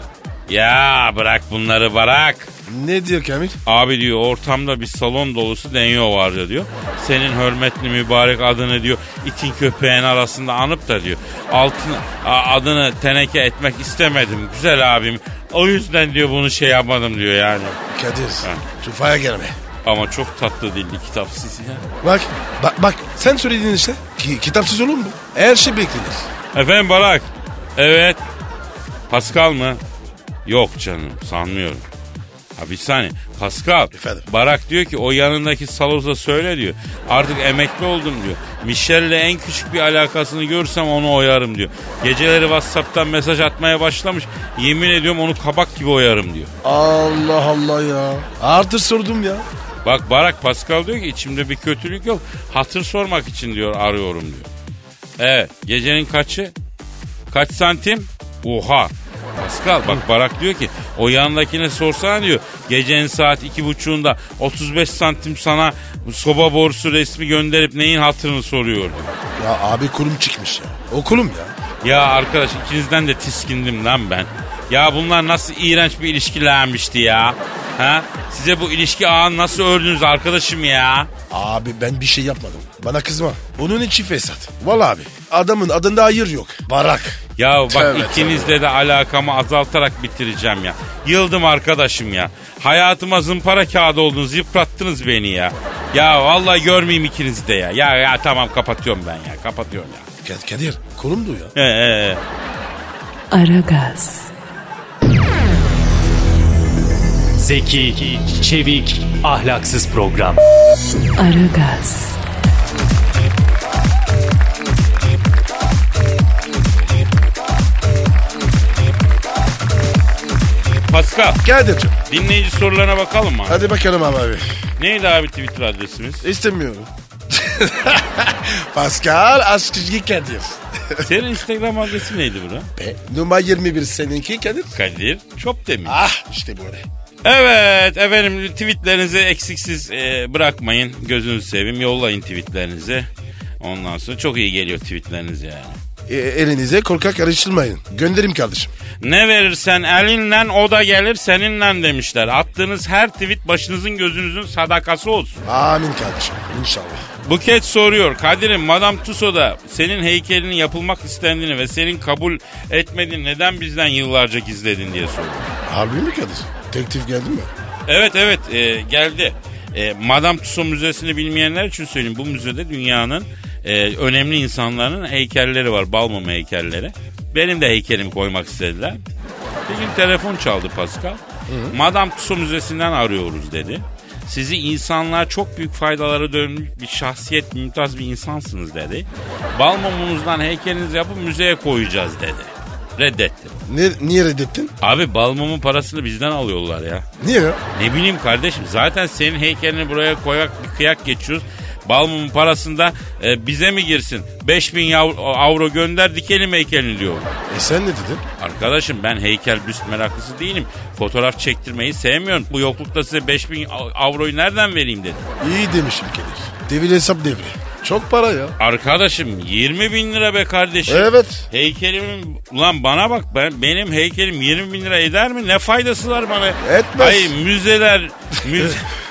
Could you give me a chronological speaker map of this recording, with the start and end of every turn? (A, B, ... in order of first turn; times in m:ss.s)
0:00.5-0:02.5 A
0:02.7-0:03.6 B
0:03.6-0:17.8 A
0:17.9-0:19.6 B
0:19.8-0:21.9 A
0:22.0-0:26.3 B
0:26.5-0:28.2 A
0:29.1-0:29.8 A
0:30.4-0:31.8 A
0:32.6-0:46.5 A
0:33.9-0:34.3 B
0:46.6-0:49.4 B
0:49.8-0:54.5 A
0:55.2-0:56.5 A
0:57.3-1:09.1 A
1:09.4-1:11.5 B
1:11.8-1:21.1 A
1:21.3-1:28.6 B
1:27.4-1:40.1 A
1:40.2-1:41.5 B
1:41.5-1:42.2 A
1:43.3-1:44.3 C
1:47.4-1:50.4 D
1:51.2-1:52.2 C
2:00.9-2:01.4 A
2:01.4-2:02.0 B
2:02.1-2:03.6 A
2:03.5-2:04.4 B
2:04.8-2:06.2 A
2:06.2-2:11.1 B
2:11.0-2:12.7 A
2:12.8-2:14.7 B
2:14.7-2:16.0 A
2:15.8-2:16.8 B
2:17.2-2:23.1 A
2:23.6-2:25.8 A
2:26.1-2:28.7 B
2:29.0-2:35.4 A
2:35.4-2:37.0 B
2:37.2-2:45.5 A
2:45.6-2:47.5 B
2:47.9-2:59.0 A
2:59.7-3:13.6 A
3:01.5-3:01.8 B
3:13.7-3:14.7 B
3:14.8-3:17.0 A
3:17.2-3:17.6 B
3:17.7-3:27.3 A
3:27.5-3:28.2 B
3:28.4-3:35.3 A
3:35.4-3:38.5 B
3:38.6-3:48.8 A
3:40.9-3:41.5 B
3:46.6-3:47.3 B